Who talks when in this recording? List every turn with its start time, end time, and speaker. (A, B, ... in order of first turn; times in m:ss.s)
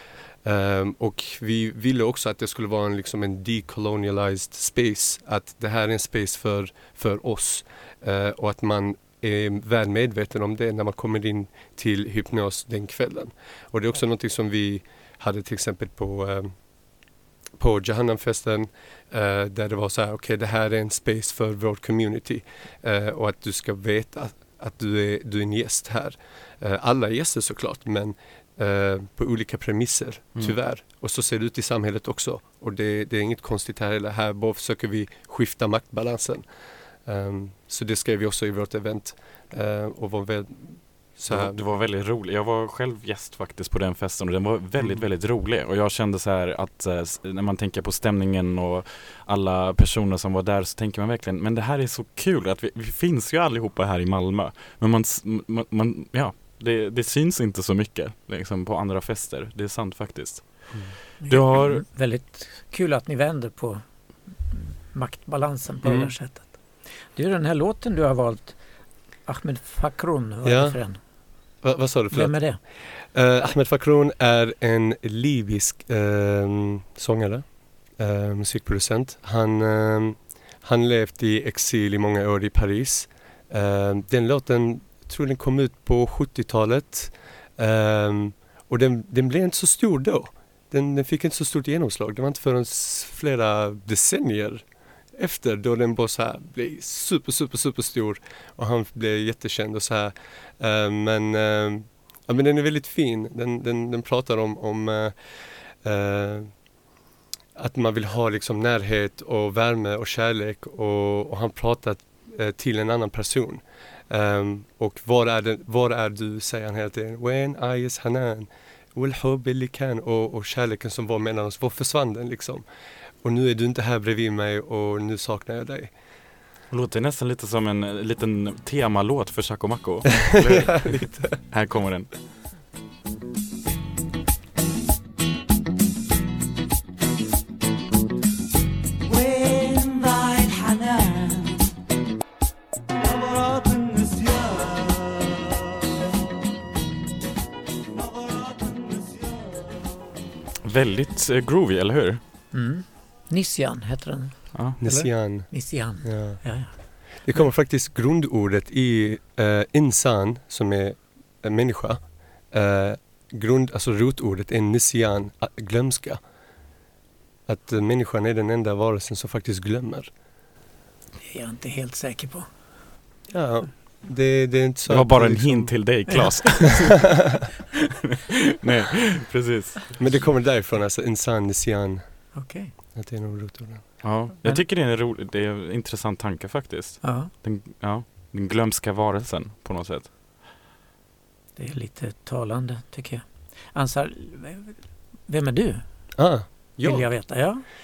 0:00.4-0:16.6 A
0:17.6-0:36.4 A
0:37.0-0:41.6 A
0:41.3-1:01.8 B
0:44.8-0:45.0 A
1:01.2-1:03.8 C
1:04.5-1:06.6 C
1:05.8-1:06.1 A
1:07.1-1:08.6 C
1:09.3-1:11.0 C
1:10.4-1:10.8 A
1:11.6-1:34.6 A
1:12.1-1:12.6 C
1:35.2-1:45.2 A
1:45.8-1:46.5 A
1:47.6-2:02.6 A
2:03.2-2:05.9 A
2:06.7-2:12.2 B
2:10.5-2:11.3 A
2:30.6-2:32.2 B
2:32.5-2:36.7 C
2:34.8-2:46.2 A
2:47.5-2:50.1 A
2:51.2-2:52.5 C
2:53.3-2:56.1 A
2:54.9-2:57.4 B
2:56.1-2:56.5 C
2:58.6-3:00.0 B
3:00.0-3:02.2 A
3:02.3-3:02.7 C
3:03.0-3:04.0 A
3:04.0-3:10.1 B
3:07.0-3:07.3 C
3:11.6-3:17.6 C
3:16.2-3:17.3 A